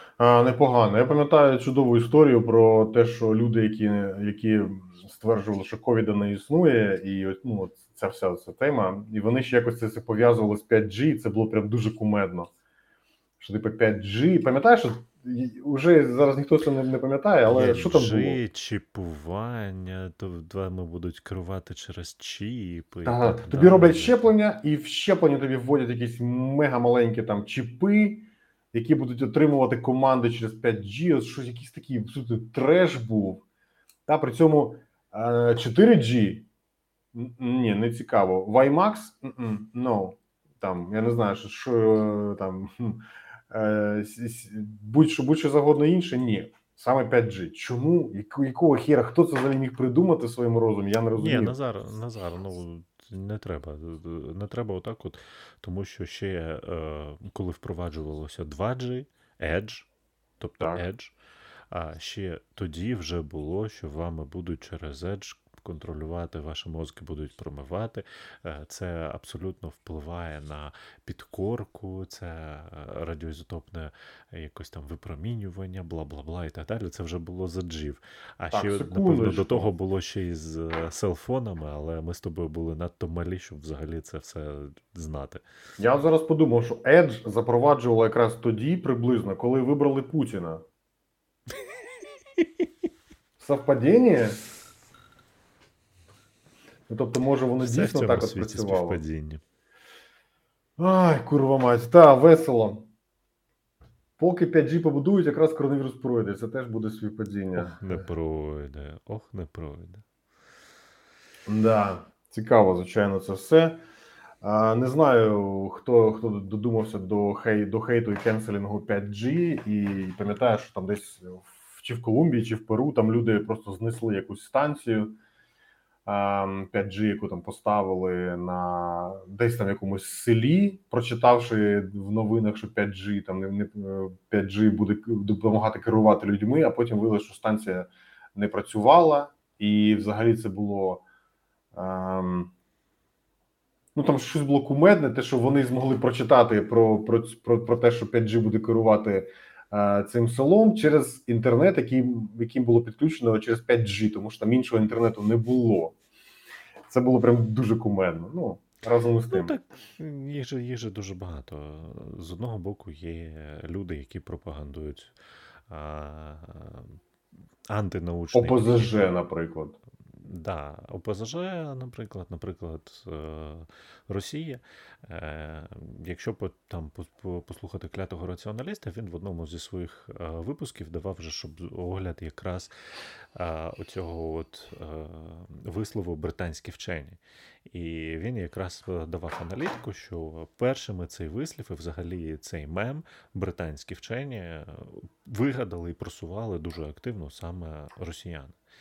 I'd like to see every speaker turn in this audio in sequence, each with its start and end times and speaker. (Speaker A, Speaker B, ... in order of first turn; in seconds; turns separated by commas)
Speaker A: 0.2-12.5, Speaker A: 13.4-18.4, Speaker B: 17.4-24.3, Speaker A: 23.0-33.4, Speaker A: 34.1-36.5, Speaker A: 37.1-51.6, Speaker B: 51.1-59.9, Speaker B: 60.4-61.1, Speaker A: 60.6-60.8, Speaker B: 61.7-85.4, Speaker A: 78.5-79.7, Speaker A: 85.8-90.6, Speaker A: 93.4-94.4, Speaker A: 96.9-99.0, Speaker B: 97.6-99.4, Speaker A: 100.8-102.9, Speaker A: 104.2-108.1, Speaker B: 107.5-110.0, Speaker A: 111.5-113.8, Speaker A: 114.4-125.2, Speaker A: 126.0-141.0, Speaker A: 141.7-142.5, Speaker A: 143.9-155.9, Speaker A: 156.9-159.6, Speaker B: 159.3-165.1, Speaker B: 165.7-167.0, Speaker B: 167.7-168.9, Speaker A: 168.3-169.8, Speaker B: 170.1-182.7, Speaker B: 183.3-198.6